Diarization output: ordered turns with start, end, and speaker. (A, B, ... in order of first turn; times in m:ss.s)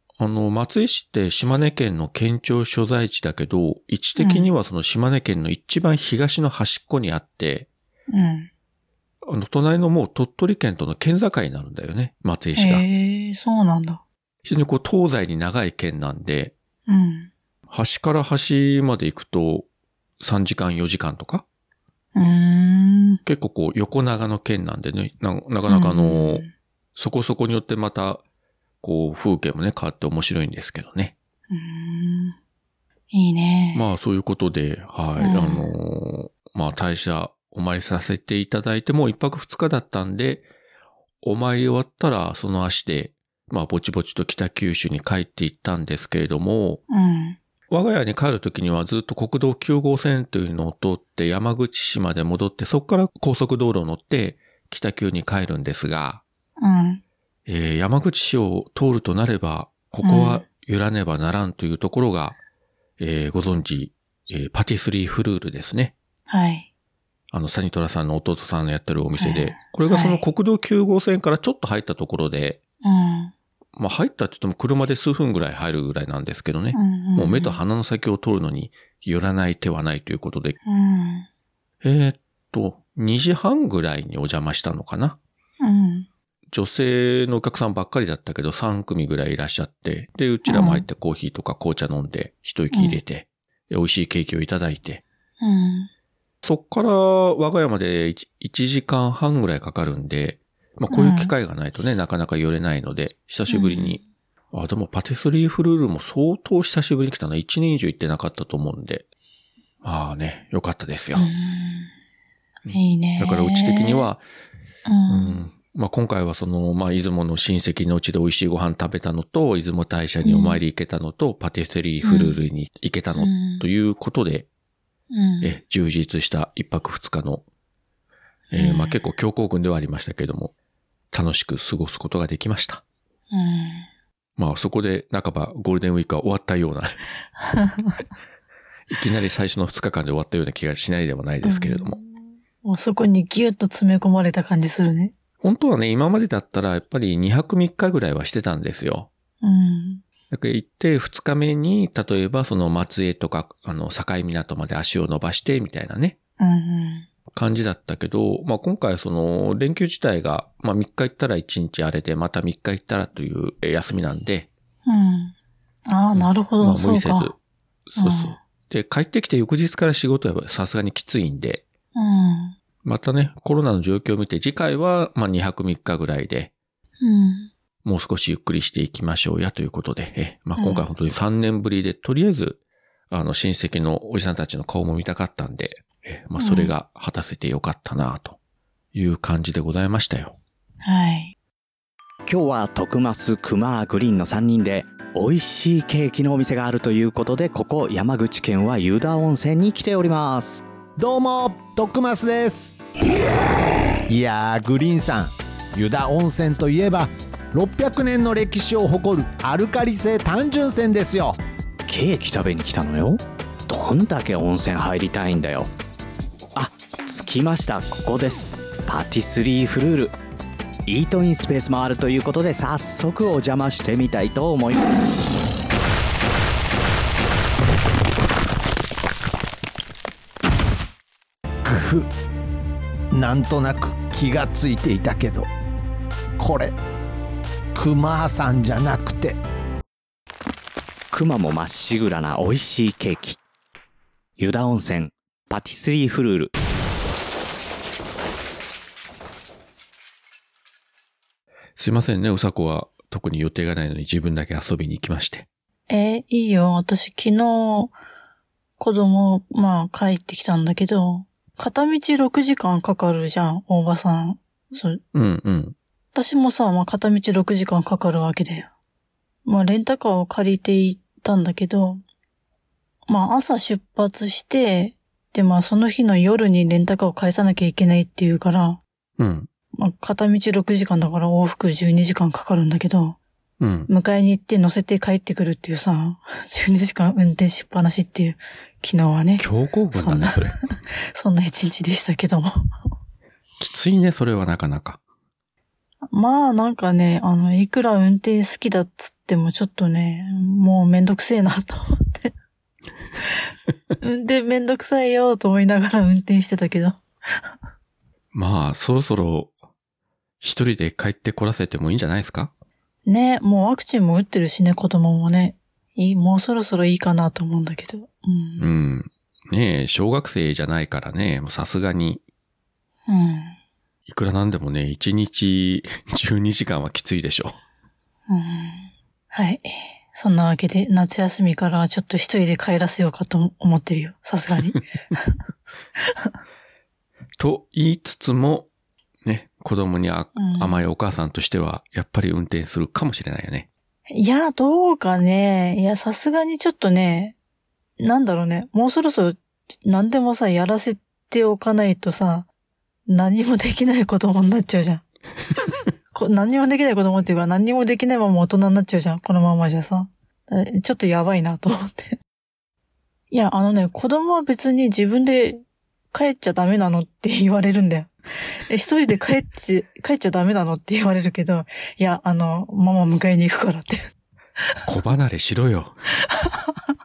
0:00.2-0:07.7 A
0:04.2-0:04.5 B
0:08.1-0:08.5 B
0:09.2-0:12.8 A
0:12.6-0:14.0 B
0:14.4-0:16.5 A
0:16.9-0:17.3 B
0:17.7-0:19.7 A
0:20.2-0:21.4 A
0:22.2-0:23.2 B
0:23.2-0:28.2 A
0:25.7-0:26.5 B
0:28.8-0:31.2 A
0:31.5-0:32.4 B
0:33.1-0:33.8 B
0:33.7-0:40.5 A
0:35.2-0:35.7 B
0:41.2-0:46.8 A
0:46.9-0:47.4 B
0:47.7-0:56.2 A
0:56.6-0:57.0 B
0:57.5-1:02.4 A
1:00.0-1:00.4 B
1:03.0-1:05.9 A
1:06.3-1:06.7 B
1:07.3-1:12.6 A
1:09.2-1:10.2 B
1:12.8-1:13.3 B
1:13.8-1:20.6 A
1:16.7-1:17.6 B
1:20.6-1:21.3 B
1:21.8-1:25.2 A
1:25.6-1:26.1 B
1:26.5-1:35.0 A
1:30.4-1:30.9 B
1:32.7-1:33.0 B
1:35.4-1:35.9 B
1:36.4-1:44.0 A
1:40.9-1:41.3 B
1:43.5-1:44.0 B
1:44.5-1:49.1 A
1:49.8-1:51.3 A
1:51.2-1:51.9 B
1:52.6-1:54.2 A
1:52.7-1:54.1 B
1:54.9-1:55.4 B
1:55.1-2:04.5 A
2:00.2-2:00.6 B
2:02.0-2:02.4 B
2:03.2-2:03.6 B
2:05.1-2:05.5 B
2:05.4-2:07.4 A
2:08.5-2:10.5 A
2:08.6-2:09.0 B
2:11.1-2:12.8 A
2:13.3-2:13.9 B
2:14.4-2:16.9 A
2:17.4-2:18.0 B
2:18.9-2:22.0 A
2:21.4-2:22.1 B
2:22.6-2:25.1 B
2:25.4-2:29.1 A
2:29.4-2:30.0 B
2:30.3-2:36.2 A
2:36.4-2:37.1 B
2:37.3-2:44.5 A
2:44.9-2:45.4 B
2:45.9-2:47.3 B
2:46.2-2:47.4 A
2:47.9-2:51.6 A
2:48.0-2:48.4 B
2:52.0-2:52.6 B
2:52.8-2:56.5 A
2:57.0-2:57.5 B
2:57.8-3:08.4 A
3:00.6-3:00.9 B
3:06.4-3:06.7 B
3:08.9-3:10.4 A
3:10.8-3:11.4 B
3:12.3-3:20.6 C
3:21.0-3:22.8 D
3:24.1-3:31.4 D
3:31.9-3:35.7 C
3:36.6-3:40.2 C
3:40.9-3:44.8 C
3:51.6-3:52.1 D
3:53.1-3:55.5 D
3:56.4-3:56.8 D
3:57.8-3:59.4 D
4:01.1-4:03.4 C
4:04.4-4:06.5 C
4:11.8-4:15.5 A
4:15.9-4:17.9 B
4:18.8-4:25.0 B
4:25.1-4:25.8 A
4:26.1-4:28.7 B
4:29.4-4:32.0 B
4:33.1-4:38.8 B
4:39.2-4:39.5 A
4:39.8-4:43.2 B
4:43.6-4:43.9 A
4:43.9-4:52.5 B
4:49.4-4:50.6 A
4:53.6-4:55.0 A
4:56.1-5:02.3 B
5:04.0-5:07.0 B
5:08.3-5:09.5 A
5:10.4-5:12.5 A
5:13.1-5:18.7 B
5:18.6-5:22.2 A
5:23.1-5:23.6 B
5:24.1-5:27.6 A
5:28.3-5:35.3 B
5:37.4-5:38.7 A
5:39.2-5:43.7 A
5:40.4-5:40.9 B
5:44.1-5:47.4 B
5:48.0-5:52.5 B
5:53.1-5:55.0 B
5:56.1-6:02.2 B
6:03.3-6:14.0 B
6:14.9-6:16.0 A
6:16.4-6:16.7 B